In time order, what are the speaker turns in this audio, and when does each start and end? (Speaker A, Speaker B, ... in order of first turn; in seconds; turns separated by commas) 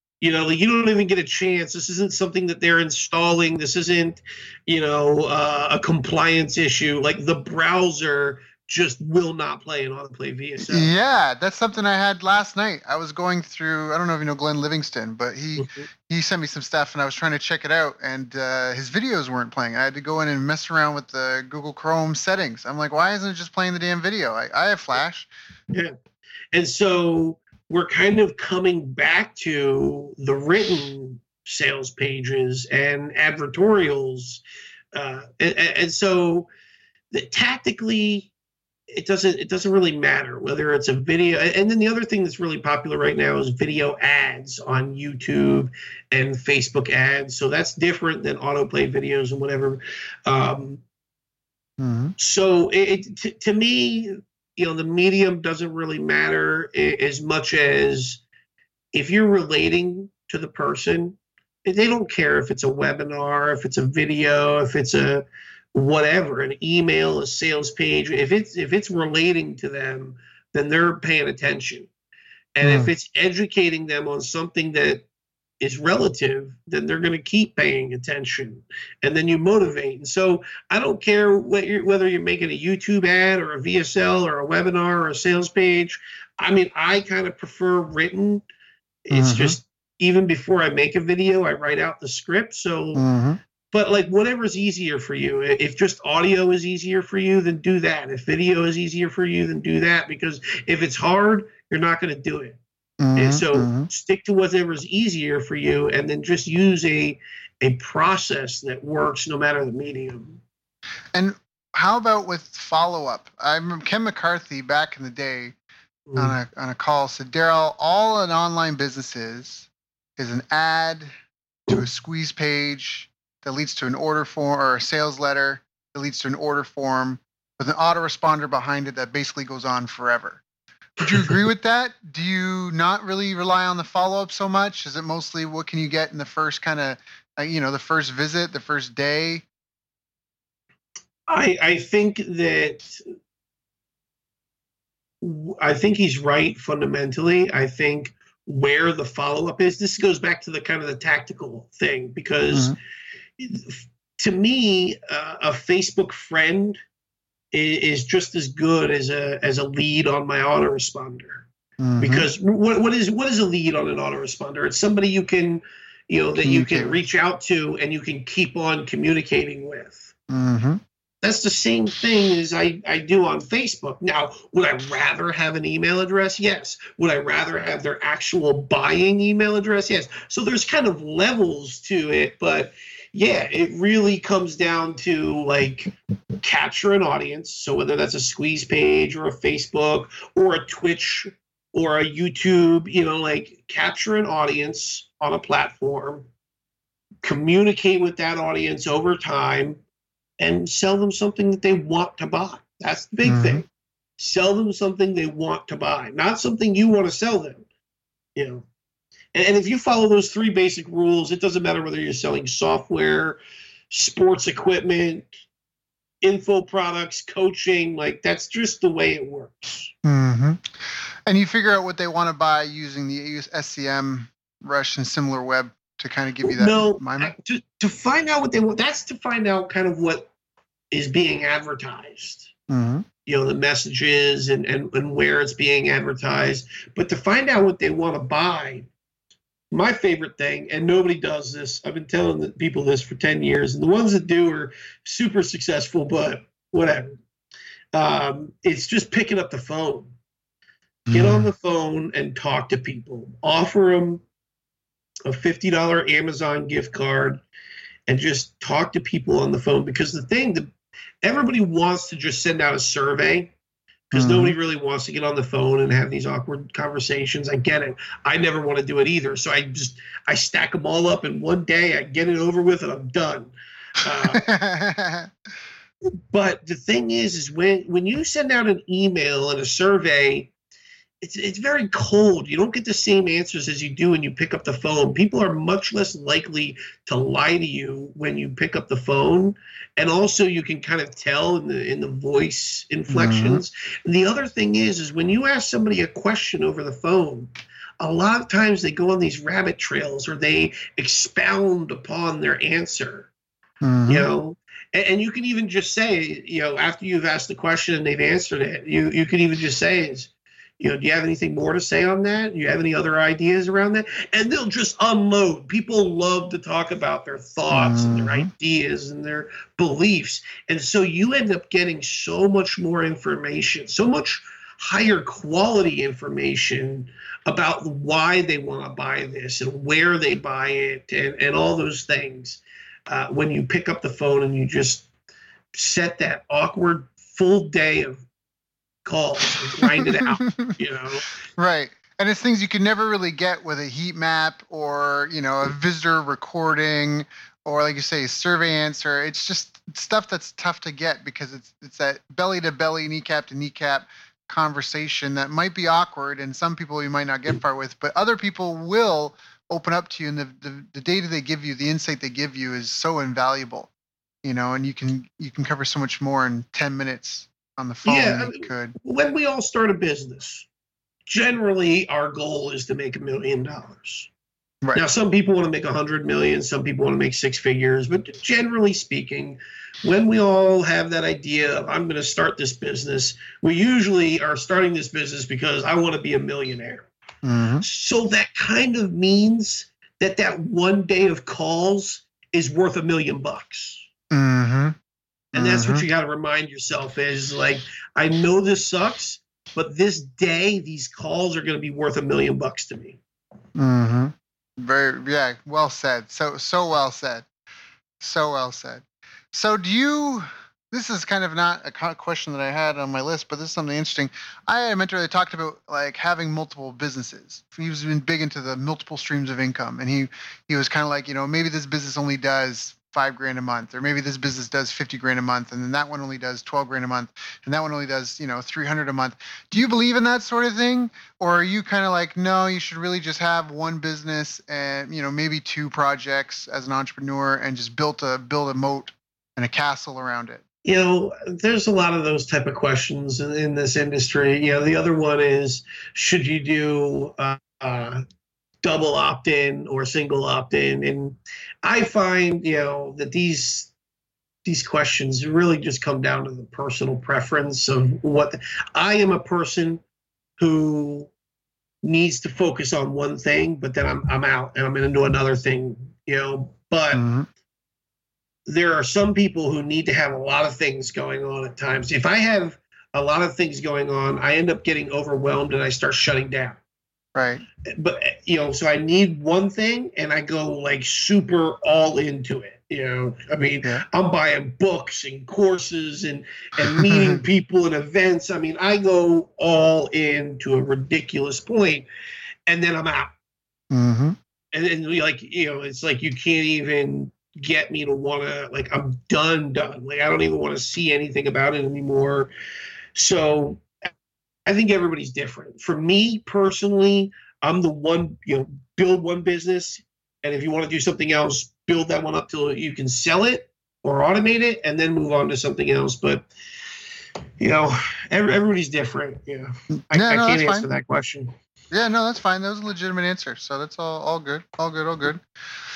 Speaker A: 0.2-10.9, Speaker B: 10.6-25.3, Speaker A: 15.6-15.9, Speaker A: 26.5-34.4, Speaker A: 35.0-36.5, Speaker A: 37.1-38.3, Speaker A: 38.9-50.8, Speaker B: 51.8-52.1, Speaker A: 52.2-58.2, Speaker A: 58.9-71.9, Speaker A: 72.6-75.0, Speaker B: 72.6-72.9, Speaker A: 75.6-88.4, Speaker A: 89.1-93.1, Speaker B: 89.1-89.6, Speaker B: 93.0-93.4, Speaker A: 93.7-102.6, Speaker B: 103.0-103.9, Speaker A: 103.2-110.4, Speaker B: 111.1-115.5, Speaker A: 116.1-116.4, Speaker B: 116.2-121.1, Speaker B: 121.7-130.4, Speaker B: 131.0-139.4, Speaker A: 141.3-143.0, Speaker A: 145.2-152.8, Speaker A: 153.4-156.8, Speaker A: 157.5-161.5, Speaker B: 161.8-162.3, Speaker A: 162.0-170.1, Speaker B: 166.4-167.0, Speaker B: 170.3-170.8, Speaker A: 171.2-196.3, Speaker A: 197.2-199.8, Speaker A: 200.4-203.7, Speaker B: 203.2-203.6, Speaker A: 204.2-207.7, Speaker A: 208.4-208.7, Speaker A: 209.3-213.4, Speaker A: 213.9-215.3, Speaker A: 216.2-219.9, Speaker B: 220.0-220.7, Speaker B: 221.3-227.3, Speaker A: 226.5-230.3, Speaker A: 230.9-232.5, Speaker B: 232.7-233.1, Speaker A: 233.3-238.9, Speaker A: 239.7-247.2, Speaker A: 247.9-250.1, Speaker B: 251.1-251.4, Speaker A: 251.1-254.2, Speaker A: 255.3-257.4, Speaker A: 258.1-260.7, Speaker A: 261.2-263.5, Speaker B: 264.1-264.6, Speaker A: 264.1-274.4, Speaker B: 274.3-275.3, Speaker A: 276.3-280.5, Speaker A: 281.2-303.3, Speaker B: 293.1-293.6, Speaker B: 303.8-304.3, Speaker A: 304.1-335.1, Speaker B: 317.7-318.5, Speaker A: 335.8-338.2, Speaker A: 339.1-341.3, Speaker B: 339.8-340.8, Speaker B: 341.6-363.9, Speaker B: 364.4-368.9, Speaker A: 368.1-370.7, Speaker A: 371.3-374.3, Speaker A: 374.9-387.1, Speaker B: 387.4-387.9, Speaker A: 387.8-394.1, Speaker B: 394.3-394.9, Speaker A: 395.5-403.2, Speaker B: 395.5-396.1, Speaker B: 403.8-407.5, Speaker B: 408.2-440.6, Speaker A: 440.9-448.2, Speaker A: 448.8-453.9, Speaker A: 454.6-460.0, Speaker A: 460.6-461.3, Speaker A: 462.0-467.3, Speaker B: 467.1-467.5, Speaker A: 468.7-476.8, Speaker B: 477.4-477.6, Speaker A: 477.9-492.1, Speaker B: 486.9-487.4, Speaker A: 492.7-493.3, Speaker B: 493.9-494.4, Speaker A: 494.7-502.5, Speaker A: 503.1-503.9, Speaker A: 504.7-516.5, Speaker A: 517.6-521.5, Speaker B: 520.1-520.9, Speaker B: 521.9-525.4